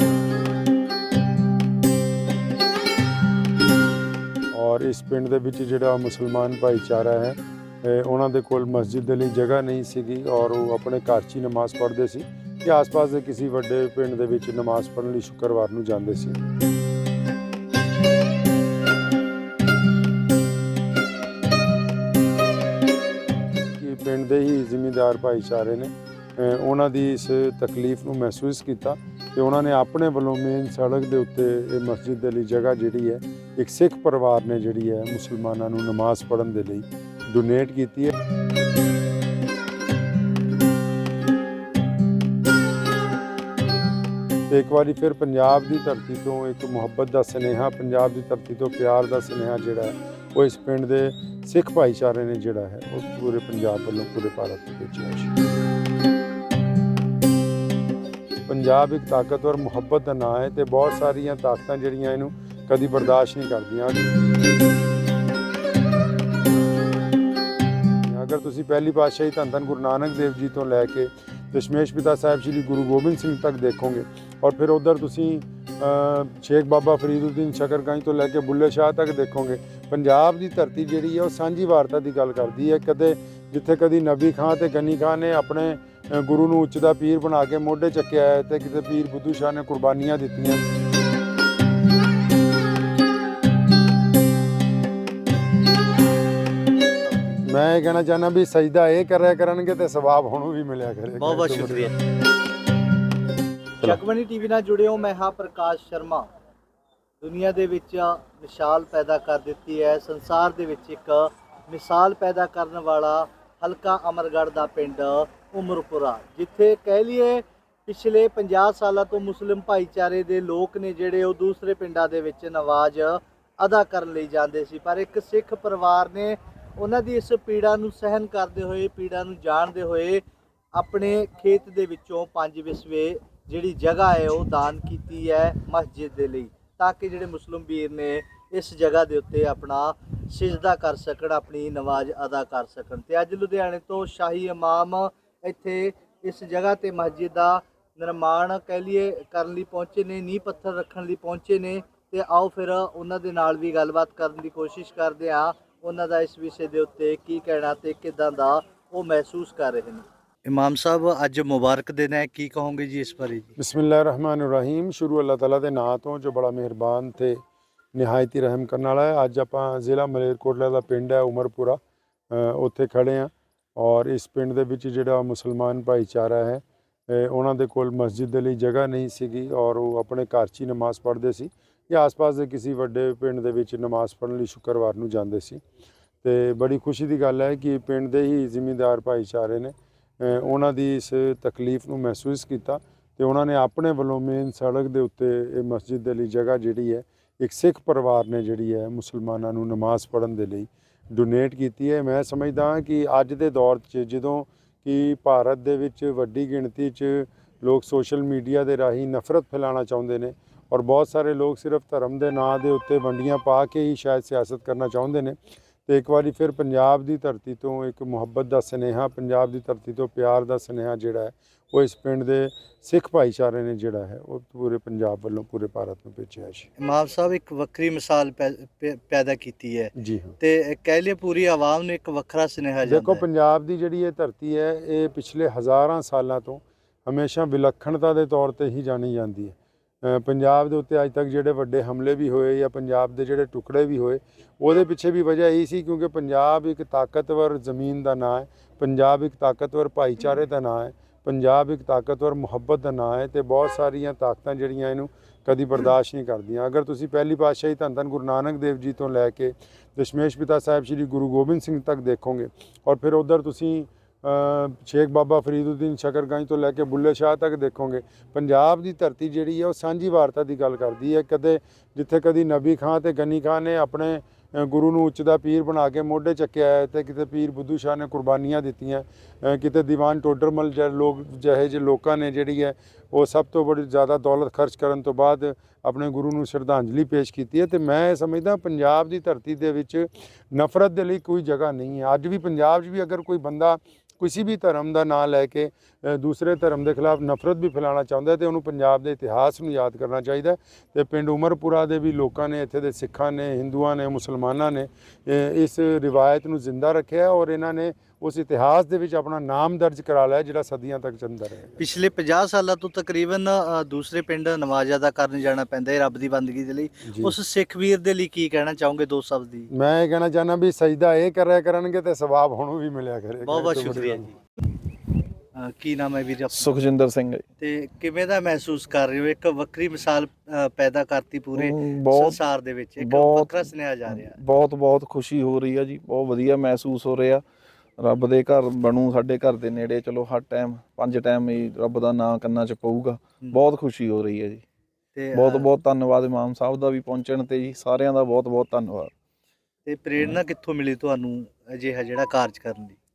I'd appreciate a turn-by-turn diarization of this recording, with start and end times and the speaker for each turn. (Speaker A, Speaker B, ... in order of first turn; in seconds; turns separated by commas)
Speaker A: 4.5-16.4, Speaker A: 23.7-38.1, Speaker A: 44.5-55.3, Speaker A: 58.5-64.1, Speaker A: 68.0-90.6, Speaker B: 97.0-97.4, Speaker A: 97.4-101.9, Speaker B: 101.2-101.9, Speaker B: 103.8-106.3, Speaker B: 107.2-163.5, Speaker A: 163.6-167.4, Speaker A: 167.9-171.8, Speaker A: 172.3-185.6, Speaker A: 186.2-226.7, Speaker B: 226.8-233.2, Speaker A: 229.9-230.3, Speaker A: 232.8-311.8, Speaker B: 311.8-319.7, Speaker A: 317.0-317.3, Speaker A: 319.7-324.3, Speaker B: 323.4-324.3, Speaker B: 325.5-326.7, Speaker C: 326.5-327.4, Speaker B: 327.6-334.4, Speaker C: 331.6-332.4, Speaker C: 333.0-337.4, Speaker C: 338.0-344.6, Speaker B: 345.1-345.7, Speaker C: 345.3-349.1, Speaker B: 349.9-353.0